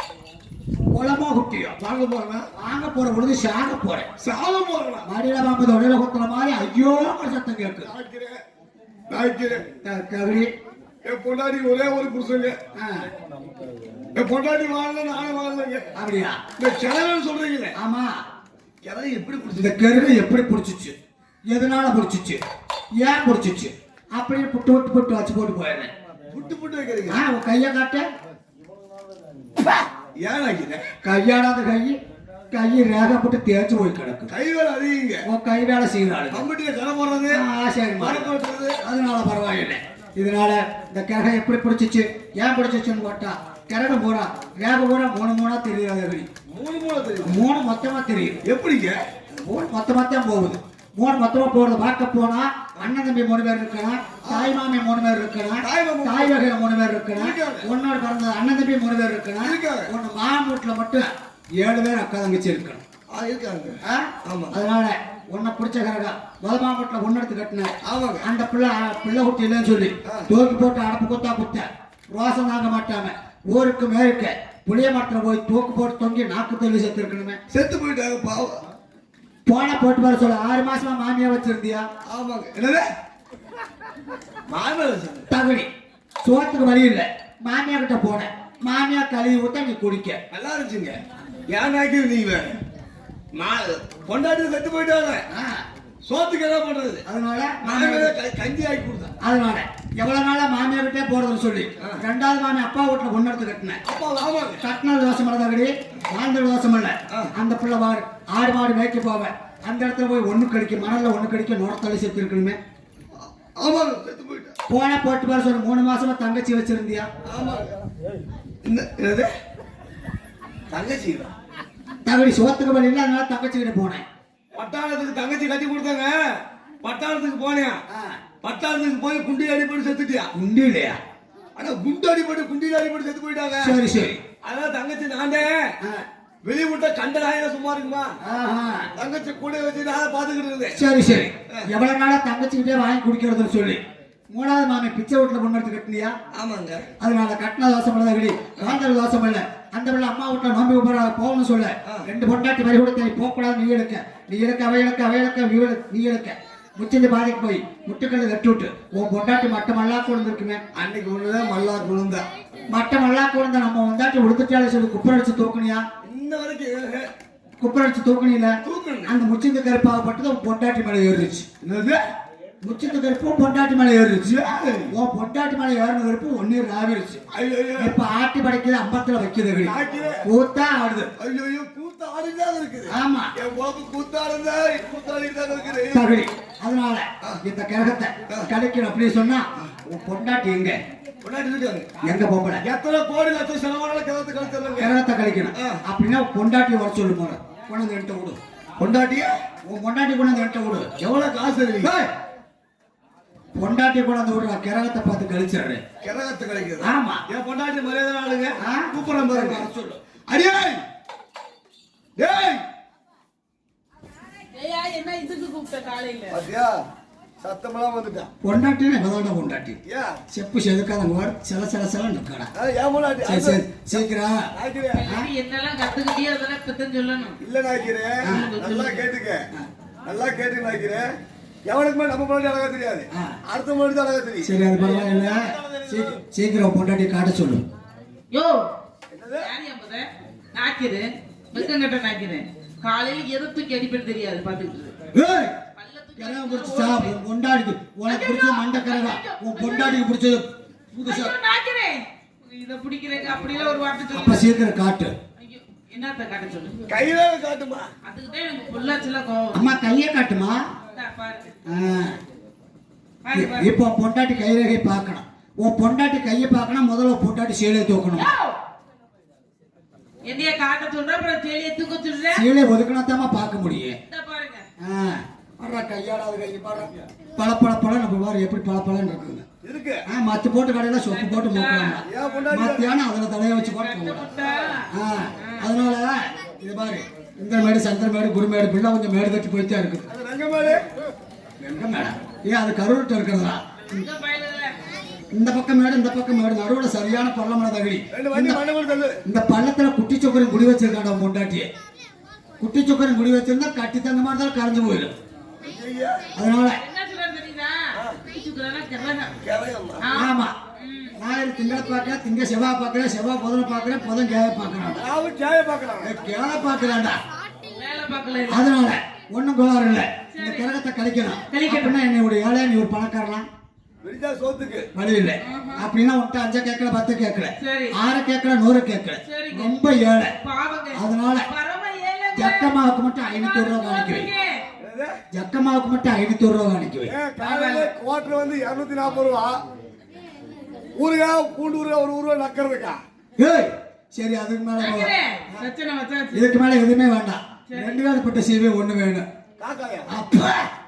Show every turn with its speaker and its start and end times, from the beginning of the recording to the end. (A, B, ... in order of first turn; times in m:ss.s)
0:00.9-0:01.8 A
0:01.8-0:02.5 B
0:02.6-0:04.1 A
0:04.2-0:05.1 B
0:05.0-0:07.9 A
0:07.8-0:08.4 B
0:09.1-0:09.7 B
0:09.8-0:10.5 A
0:11.0-0:12.6 B
0:12.8-0:13.1 A
0:14.1-0:15.9 B
0:16.0-0:16.4 A
0:16.6-0:17.7 B
0:17.7-0:18.2 A
0:18.8-0:20.1 B
0:19.6-0:20.9 A
0:21.5-0:22.4 A
0:23.0-0:25.9 A
0:26.3-0:27.2 B
0:27.1-0:28.1 A
0:30.2-0:30.8 B
0:31.0-0:32.0 A
0:32.5-0:34.3 A
0:34.3-0:35.2 B
0:35.2-0:36.5 A
0:36.3-0:37.4 B
0:37.3-0:46.3 A
0:38.0-0:38.8 B
0:46.5-0:47.4 B
0:47.2-0:48.4 A
0:48.4-0:49.0 B
0:49.4-1:02.8 A
0:54.2-0:54.5 B
0:55.6-0:56.4 B
0:57.2-0:57.7 B
0:59.4-0:59.9 B
1:03.1-1:04.5 B
1:03.8-1:17.4 A
1:07.8-1:08.2 B
1:17.5-1:18.6 B
1:19.4-1:21.9 A
1:22.1-1:22.9 B
1:24.5-1:25.3 B
1:25.3-1:25.7 A
1:26.2-1:30.2 A
1:30.3-1:32.6 B
1:33.3-1:35.2 B
1:35.3-1:35.6 A
1:36.0-1:37.0 B
1:37.0-1:38.1 A
1:37.6-1:39.1 B
1:39.2-1:43.8 A
1:43.8-1:44.6 B
1:44.6-1:52.6 A
1:53.2-1:54.5 B
1:54.7-1:57.1 A
1:57.2-1:57.7 B
1:58.6-1:59.3 B
2:00.7-2:01.3 B
2:02.0-2:04.0 A
2:04.5-2:06.2 B
2:06.8-2:07.8 B
2:07.9-2:08.2 A
2:08.4-2:10.3 B
2:10.3-2:11.0 A
2:11.6-2:13.7 B
2:13.6-2:14.2 A
2:14.4-2:15.7 B
2:16.4-2:18.1 B
2:18.2-2:18.9 A
2:19.0-2:20.8 B
2:20.7-2:23.8 A
2:24.3-2:26.1 A
2:26.3-2:26.8 B
2:27.0-2:40.6 A
2:40.7-2:42.2 B
2:42.7-2:45.8 A
2:46.0-2:47.1 B
2:47.6-2:51.5 A
2:48.6-2:49.1 B
2:51.6-2:52.0 B
2:52.6-2:57.2 A
2:54.3-2:54.9 B
2:57.3-2:58.0 B
2:57.8-3:01.1 A
2:59.6-3:00.2 B
3:01.2-3:06.0 B
3:02.9-3:03.3 A
3:05.9-3:10.8 A
3:11.2-3:12.0 B
3:12.0-3:12.6 A
3:12.6-3:14.9 B
3:14.8-3:18.4 A
3:18.8-3:19.3 B
3:19.6-3:21.0 A
3:21.0-3:22.1 B
3:23.6-3:25.8 A
3:26.0-3:29.7 B
3:26.8-3:27.2 A
3:28.6-3:30.0 A
3:30.3-3:30.8 B
3:32.2-3:32.6 B
3:34.5-3:36.4 C
3:36.3-3:36.8 B
3:37.4-3:38.3 B
3:38.4-3:39.8 A
3:39.8-3:40.2 B
3:40.3-3:42.5 A
3:42.6-3:43.6 B
3:43.2-3:44.5 A
3:44.5-3:45.0 B
3:44.9-3:47.4 C
3:47.4-3:49.4 B
3:48.2-3:48.6 A
3:48.3-3:49.1 C
3:50.0-3:51.1 B
3:51.6-3:56.2 B
3:54.4-3:57.6 A
3:58.3-3:58.7 C
3:59.1-3:59.5 B
3:59.4-4:04.9 C
4:05.1-4:05.6 A
4:05.8-4:07.2 C
4:06.2-4:11.4 A
4:08.0-4:10.0 C
4:11.0-4:14.6 C
4:14.1-4:15.1 A
4:15.4-4:16.8 C
4:16.9-4:17.9 B
4:18.0-4:19.7 C
4:19.5-4:20.6 A
4:20.9-4:21.5 C
4:21.7-4:22.2 A
4:23.2-4:23.7 C
4:23.3-4:28.3 A
4:28.1-4:28.6 C
4:30.2-4:32.5 C
4:32.3-4:34.0 A
4:34.1-4:34.6 C
4:34.8-4:39.4 A
4:39.6-4:40.0 B
4:40.1-4:44.4 A
4:41.0-4:42.4 C
4:42.0-4:42.9 B
4:43.7-4:44.9 C
4:44.4-4:44.7 B
4:44.9-4:50.1 A
4:45.4-4:45.7 C
4:50.1-4:50.8 B
4:51.6-4:54.1 A
4:53.9-4:54.8 C
4:55.3-4:58.6 A
4:58.1-4:59.2 B
4:59.2-5:01.7 A
5:02.6-5:05.1 A
5:05.6-5:06.2 B
5:06.3-5:06.8 A
5:06.8-5:09.3 C
5:09.4-5:10.0 B
5:10.0-5:11.1 C
5:10.1-5:10.5 A
5:11.1-5:15.0 A
5:15.0-5:16.1 B
5:16.0-5:17.2 A
5:17.7-5:18.7 C
5:18.5-5:23.4 A
5:20.3-5:20.7 C
5:21.5-5:22.0 C
5:24.0-5:24.9 B
5:24.9-5:30.3 A
5:25.4-5:25.9 C
5:27.6-5:28.0 C
5:29.2-5:29.8 C
5:30.4-5:34.6 C
5:30.9-5:31.5 A
5:32.3-5:34.3 A
5:34.8-5:35.2 B
5:35.3-5:37.1 A
5:37.1-5:39.6 B
5:37.4-5:37.9 C
5:41.0-5:43.0 B
5:43.4-5:45.1 A
5:44.8-5:46.5 C
5:46.3-5:49.2 A
5:47.7-5:48.0 C
5:49.6-5:50.1 B
5:50.1-5:50.6 A